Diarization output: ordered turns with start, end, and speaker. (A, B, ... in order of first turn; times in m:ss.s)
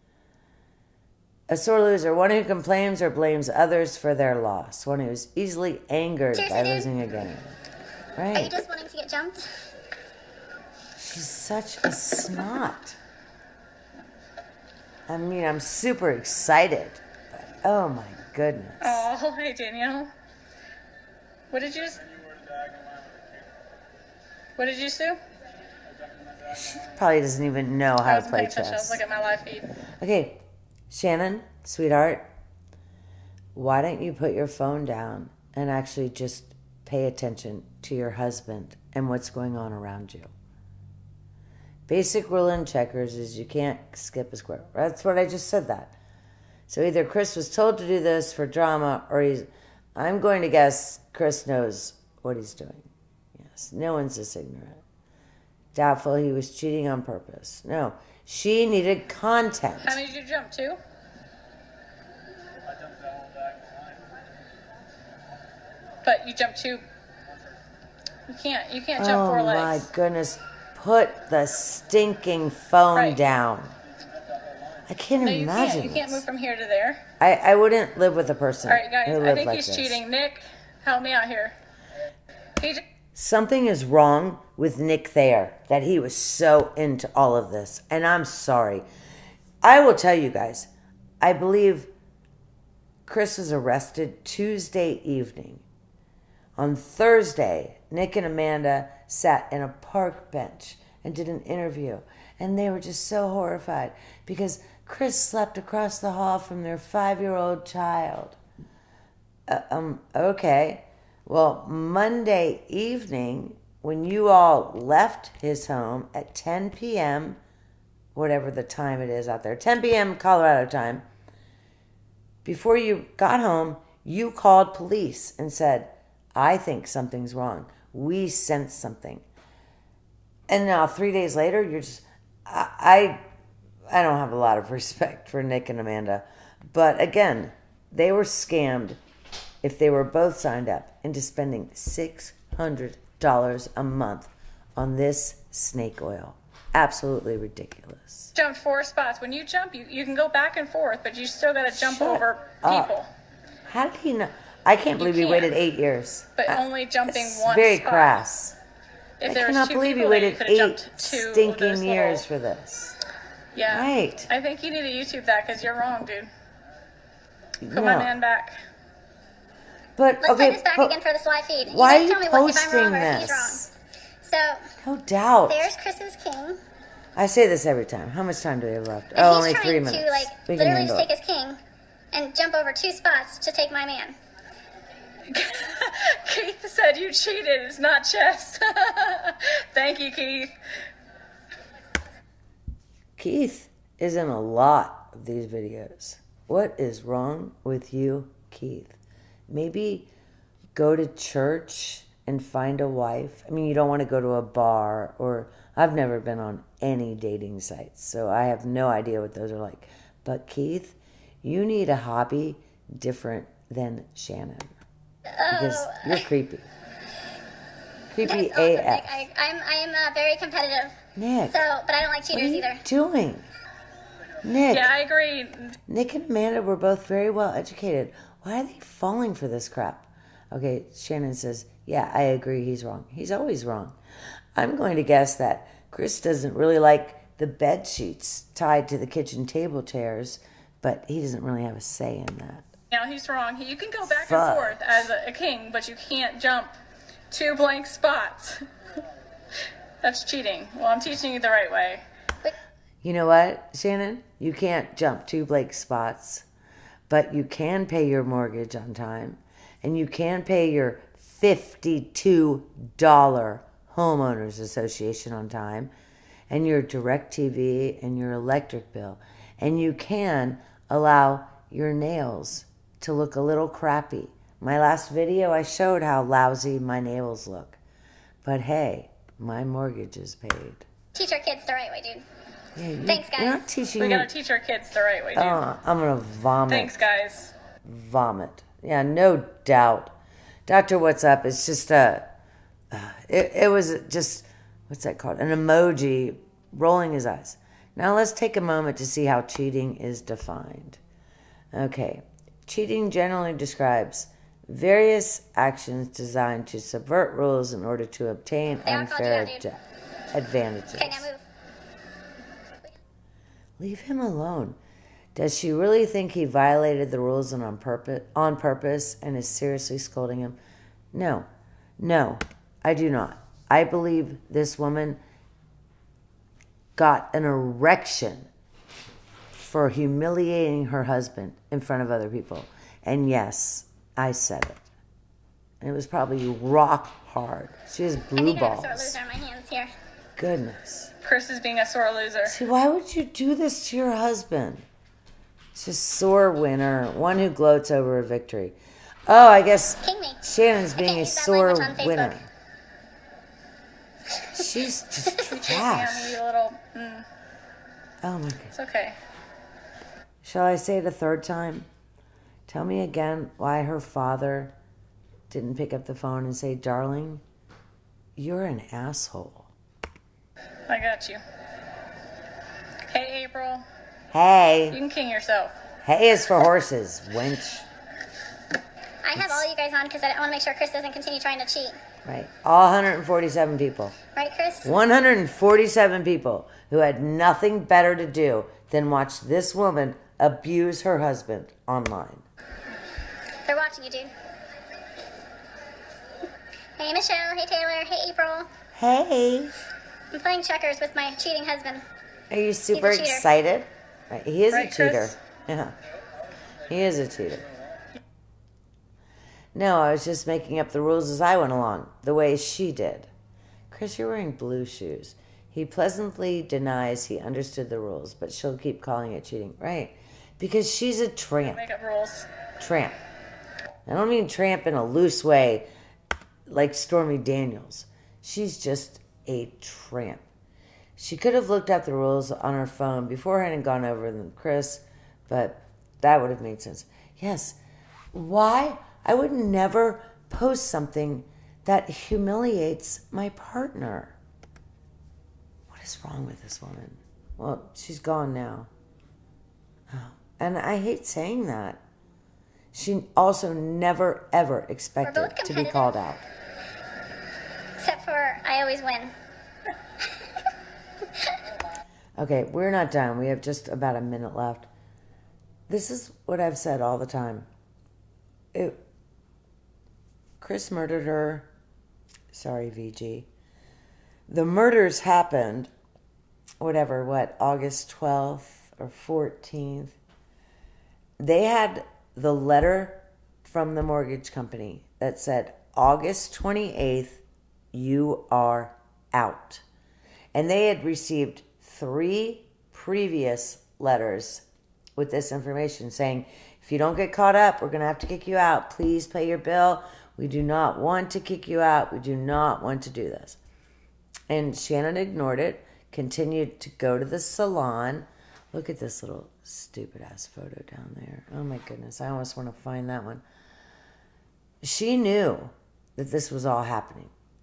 0:01.5-0:07.6 A
0:06.3-0:06.9 B
0:08.2-0:08.5 A
0:08.3-0:09.5 B
0:11.0-0:13.0 A
0:15.1-0:19.1 A
0:18.8-0:20.1 C
0:21.5-0:22.1 C
0:24.6-0:25.2 C
0:26.4-0:29.0 A
0:28.0-0:29.7 C
0:30.0-0:32.3 A
0:33.6-0:40.3 A
0:41.9-0:46.0 A
0:46.7-0:54.8 A
0:55.7-1:00.0 A
0:59.8-1:00.8 C
1:06.0-1:06.8 C
1:08.3-1:09.9 C
1:09.0-1:13.7 A
1:13.0-1:13.2 C
1:14.9-1:16.2 A
1:15.2-1:17.0 C
1:17.2-1:20.0 A
1:18.6-1:21.6 C
1:23.1-1:28.9 A
1:29.6-1:30.7 A
1:31.2-1:31.9 A
1:33.1-1:35.6 A
1:36.6-1:48.4 A
1:49.5-1:57.4 A
1:58.2-2:01.0 A
2:02.4-2:09.2 A
2:10.5-2:13.2 A
2:13.9-2:19.0 A
2:19.6-2:28.3 A
2:28.3-2:33.1 C
2:31.8-2:32.9 A
2:33.7-2:38.6 A
2:35.0-2:35.6 C
2:36.4-2:38.2 C
2:39.2-2:42.2 C
2:39.2-2:43.0 A
2:43.6-2:46.3 C
2:43.7-2:44.3 A
2:47.6-2:48.2 A
2:47.7-2:48.6 C
2:50.0-2:51.0 A
2:50.2-2:53.6 B
2:51.6-2:53.7 A
2:54.2-2:54.7 B
2:54.8-2:55.7 A
2:55.5-2:56.6 B
2:57.2-3:01.1 A
2:59.2-3:01.6 B
3:02.1-3:04.2 B
3:05.3-3:10.5 C
3:13.2-3:19.0 A
3:19.5-3:20.1 A
3:20.8-3:34.8 A
3:35.3-3:36.2 B
3:35.5-3:36.7 A
3:38.1-3:39.2 A
3:38.2-3:41.0 B
3:41.2-3:41.6 A
3:41.5-3:42.8 B
3:42.3-3:43.5 A
3:44.4-3:44.9 A
3:44.7-3:45.8 C
3:45.9-3:54.0 A
3:54.6-4:02.7 A
4:02.9-4:06.8 C
4:04.0-4:04.9 A
4:07.3-4:08.7 C
4:10.0-4:12.0 C
4:13.0-4:16.5 A
4:17.1-4:25.9 A
4:26.5-4:37.8 A
4:38.4-4:40.9 A
4:41.1-4:42.2 B
4:42.8-4:44.3 A
4:43.0-4:43.7 B
4:44.0-4:45.6 C
4:45.3-4:47.0 A
4:46.7-4:47.5 C
4:47.8-4:50.2 A
4:50.7-4:52.2 A
4:52.9-5:01.0 A
5:01.7-5:09.8 A
5:08.9-5:09.6 B
5:10.3-5:11.3 A
5:11.0-5:11.4 B
5:13.8-5:14.8 A
5:15.4-5:20.6 A
5:21.1-5:21.5 A
5:22.0-5:25.2 A
5:27.0-5:28.5 A
5:29.6-5:34.9 A
5:35.8-5:39.2 A
5:38.4-5:39.9 B
5:40.4-5:41.1 A
5:41.2-5:42.6 C
5:42.4-5:44.9 A
5:45.7-5:48.8 A
5:49.3-5:52.5 A
5:50.0-5:50.4 B
5:51.0-5:52.4 B
5:54.5-5:56.4 A
5:55.4-5:57.3 C
5:58.2-5:58.7 A
5:58.7-5:59.2 C
6:00.4-6:01.9 A
6:02.7-6:04.7 A
6:05.5-6:07.4 A
6:08.4-6:09.7 A
6:10.9-6:11.4 C
6:13.1-6:13.8 C
6:14.3-6:15.0 A
6:14.9-6:15.8 C
6:16.0-6:17.9 A
6:19.2-6:22.0 B
6:19.4-6:19.7 A
6:22.2-6:24.2 A
6:24.4-6:24.9 B
6:24.8-6:32.4 A
6:33.7-6:34.3 B
6:37.0-6:38.7 B
6:39.0-6:39.7 A
6:40.3-6:42.0 B
6:42.5-6:46.0 A
6:42.9-6:43.5 B
6:44.7-6:45.3 C
6:46.9-6:47.7 A
6:49.7-6:53.3 A
6:53.9-7:01.9 A
7:01.7-7:02.5 C
7:02.8-7:03.2 A
7:04.1-7:05.9 A
7:06.7-7:10.4 A
7:11.2-7:17.8 A
7:18.3-7:24.4 A
7:25.9-7:28.9 A
7:30.1-7:32.0 A
7:32.9-7:36.4 A
7:35.2-7:36.1 B
7:38.0-7:39.3 B
7:42.4-7:44.9 A
7:45.9-7:47.7 A
7:48.7-7:49.0 A
7:50.6-7:51.7 A
7:52.5-7:53.5 A
7:54.5-7:55.9 A
7:56.8-8:00.2 A
8:01.4-8:09.8 A
8:10.5-8:14.6 A
8:15.2-8:23.6 A
8:24.5-8:33.4 A
8:34.8-8:37.3 A